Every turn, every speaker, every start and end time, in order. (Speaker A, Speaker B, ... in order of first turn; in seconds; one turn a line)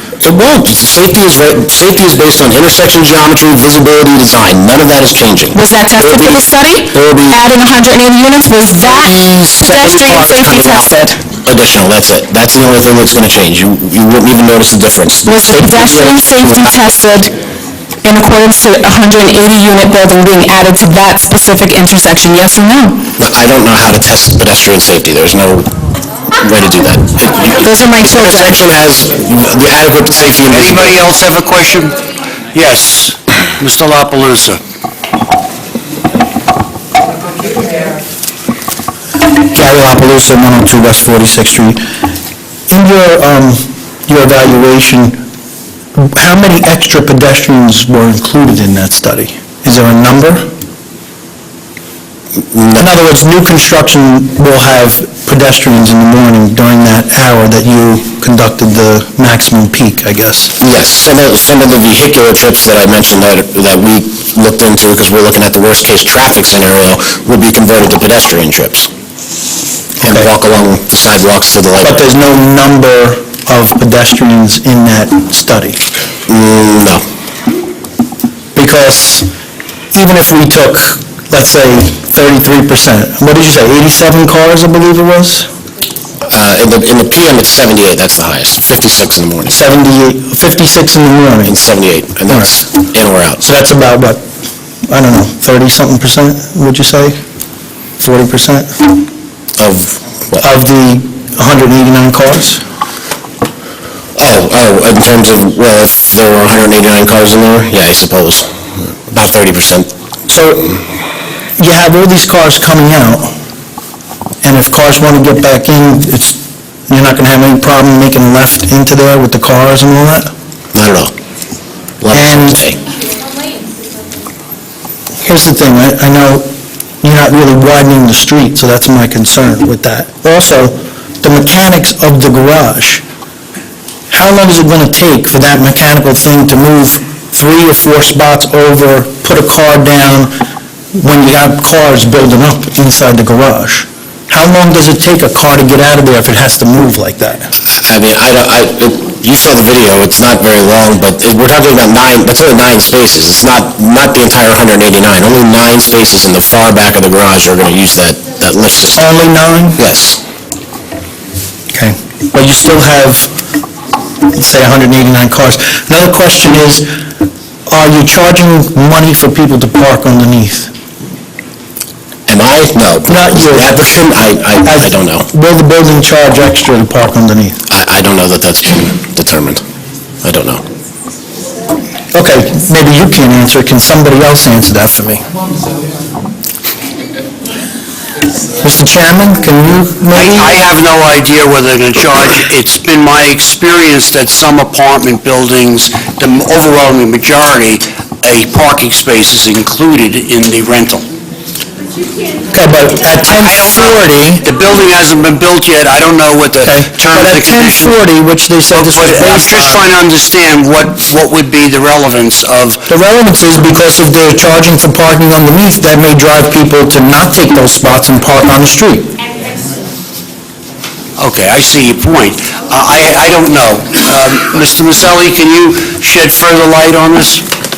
Speaker A: 0.2-7.3
Speaker B: 5.5-11.2
Speaker A: 8.8-10.9
Speaker A: 11.4-16.7
Speaker B: 15.2-17.3
Speaker B: 18.0-23.0
Speaker A: 23.2-25.7
Speaker A: 26.4-31.0
Speaker B: 27.6-28.6
Speaker C: 30.1-34.6
Speaker D: 39.5-41.8
Speaker D: 42.7-45.2
Speaker D: 46.0-50.5
Speaker A: 52.5-52.9
Speaker D: 52.8-60.5
Speaker A: 60.6-68.9
Speaker A: 70.0-72.0
Speaker D: 71.9-75.8
Speaker A: 76.3-77.0
Speaker D: 78.5-79.3
Speaker D: 79.9-85.5
Speaker A: 86.2-89.6
Speaker D: 89.5-91.5
Speaker A: 91.4-93.4
Speaker D: 93.4-94.3
Speaker D: 94.9-97.2
Speaker D: 98.0-98.8
Speaker A: 99.6-100.5
Speaker D: 100.4-102.6
Speaker A: 104.2-108.5
Speaker A: 109.1-109.9
Speaker D: 110.3-110.7
Speaker D: 111.6-113.3
Speaker D: 114.4-120.3
Speaker A: 120.7-121.1
Speaker A: 122.0-122.8
Speaker D: 122.2-122.7
Speaker D: 125.2-133.0
Speaker D: 134.1-140.4
Speaker D: 140.9-147.5
Speaker A: 147.7-159.1
Speaker D: 158.9-159.8
Speaker A: 159.8-160.2
Speaker D: 161.7-163.3
Speaker D: 164.2-166.9
Speaker D: 167.7-170.7
Speaker A: 172.3-175.3
Speaker D: 173.1-174.0
Speaker D: 174.7-177.6
Speaker A: 177.7-179.6
Speaker A: 180.2-180.6
Speaker D: 182.1-185.2
Speaker D: 188.6-190.5
Speaker C: 190.1-201.1
Speaker D: 202.5-204.3
Speaker C: 203.2-208.1
Speaker D: 207.1-209.4
Speaker C: 208.7-212.8
Speaker D: 213.0-219.0
Speaker C: 221.2-227.4